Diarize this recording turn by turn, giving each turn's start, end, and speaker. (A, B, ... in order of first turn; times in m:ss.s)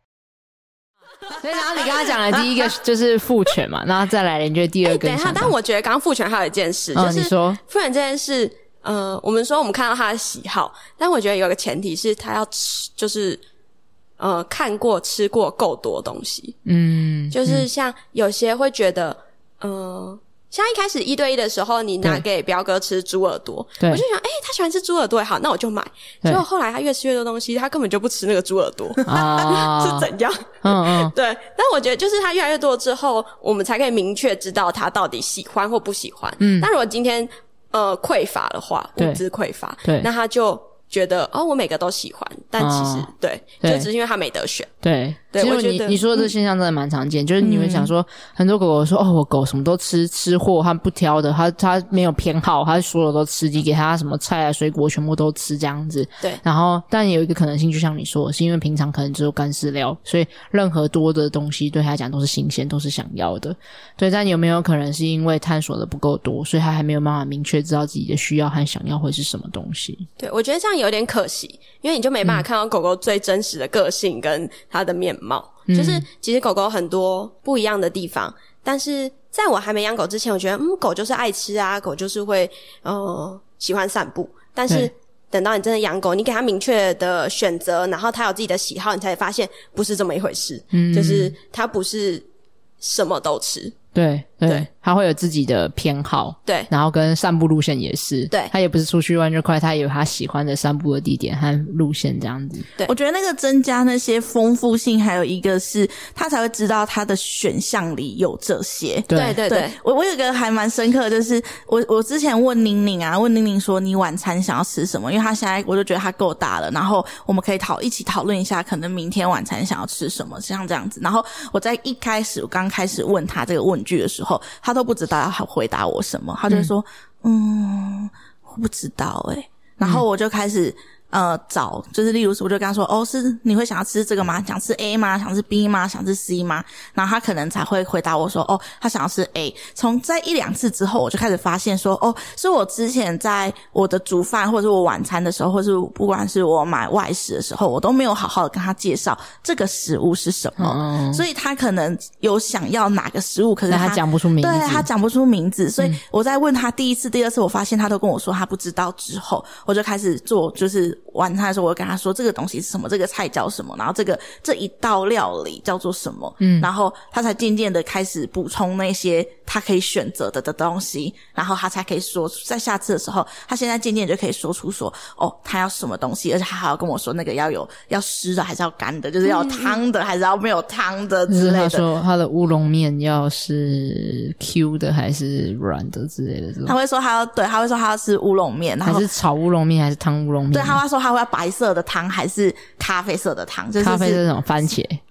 0:01.3-0:05.5 A
0:04.8-0:13.4 B
0:06.9-0:07.6 A
0:14.2-0:16.6 B
0:16.6-0:17.7 A
0:17.3-0:44.7 B
0:29.0-0:30.1 A
0:30.6-0:31.1 A
0:36.4-0:36.7 A
0:39.0-0:39.2 A
0:42.6-0:43.1 A
0:43.6-0:43.9 A
0:44.8-1:10.0 A
0:45.3-0:46.2 B
0:47.4-0:47.9 C
1:10.2-1:32.3 B
1:15.7-1:16.0 A
1:30.7-1:31.3 A
1:32.8-1:33.7 B
1:33.9-1:42.7 A
1:42.9-3:01.8 C
1:49.1-1:49.4 A
1:49.1-1:49.8 B
2:30.6-2:31.2 A
2:33.7-2:34.9 A
2:46.4-2:46.7 A
2:59.2-2:59.8 B
3:01.3-3:06.7 A
3:06.6-3:09.1 C
3:08.8-3:10.8 A
3:10.5-3:14.2 C
3:13.8-3:15.0 A